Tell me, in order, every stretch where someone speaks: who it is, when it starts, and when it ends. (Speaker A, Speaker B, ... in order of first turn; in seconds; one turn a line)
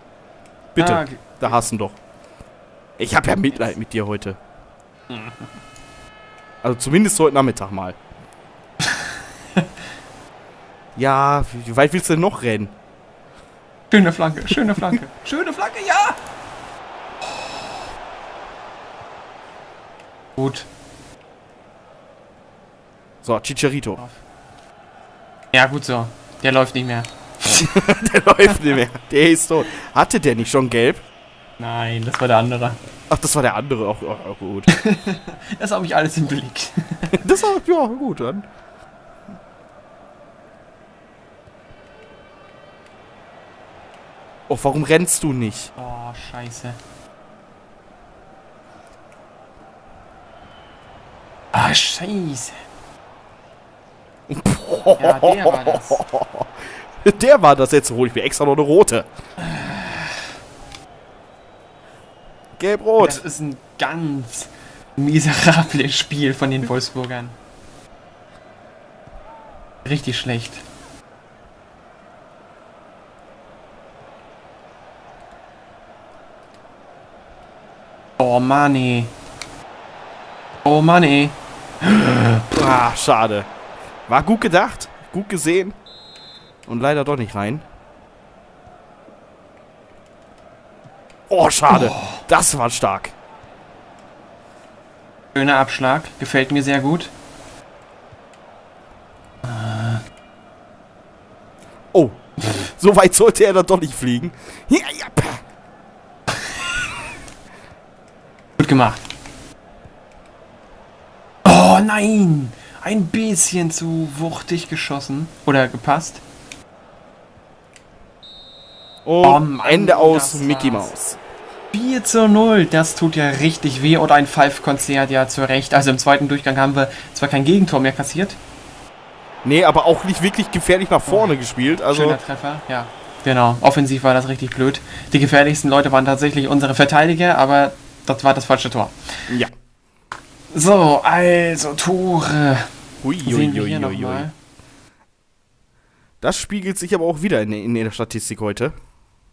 Speaker A: 0.7-2.0
Speaker B: 0.8-1.7
Speaker A: 3.0-4.4
Speaker B: 5.1-5.5
Speaker A: 6.6-8.0
Speaker B: 8.8-9.7
Speaker A: 10.9-12.7
Speaker B: 13.9-16.2
Speaker B: 20.4-20.7
Speaker A: 23.2-24.0
Speaker B: 24.0-24.2
Speaker B: 25.5-27.7
Speaker A: 27.5-31.0
Speaker B: 31.6-32.8
Speaker A: 33.1-34.7
Speaker B: 34.7-37.2
Speaker A: 37.1-38.5
Speaker A: 44.5-45.7
Speaker B: 45.8-46.8
Speaker B: 51.5-52.6
Speaker A: 54.3-59.1
Speaker B: 55.0-56.0
Speaker B: 59.4-60.2
Speaker A: 62.6-63.2
Speaker B: 63.0-67.3
Speaker B: 69.8-70.6
Speaker B: 78.2-79.1
Speaker B: 80.6-82.5
Speaker A: 82.5-83.5
Speaker A: 84.1-85.8
Speaker A: 86.7-87.6
Speaker A: 91.3-93.1
Speaker B: 91.7-92.2
Speaker B: 95.3-97.1
Speaker B: 99.4-100.0
Speaker A: 101.9-105.4
Speaker B: 108.6-109.0
Speaker B: 111.4-116.2
Speaker A: 119.0-121.2
Speaker B: 119.2-120.9
Speaker B: 121.7-128.4
Speaker A: 129.4-132.2
Speaker B: 131.1-131.3
Speaker B: 131.9-138.9
Speaker B: 140.5-142.7
Speaker A: 143.0-144.3
Speaker B: 143.2-144.3
Speaker A: 146.2-148.7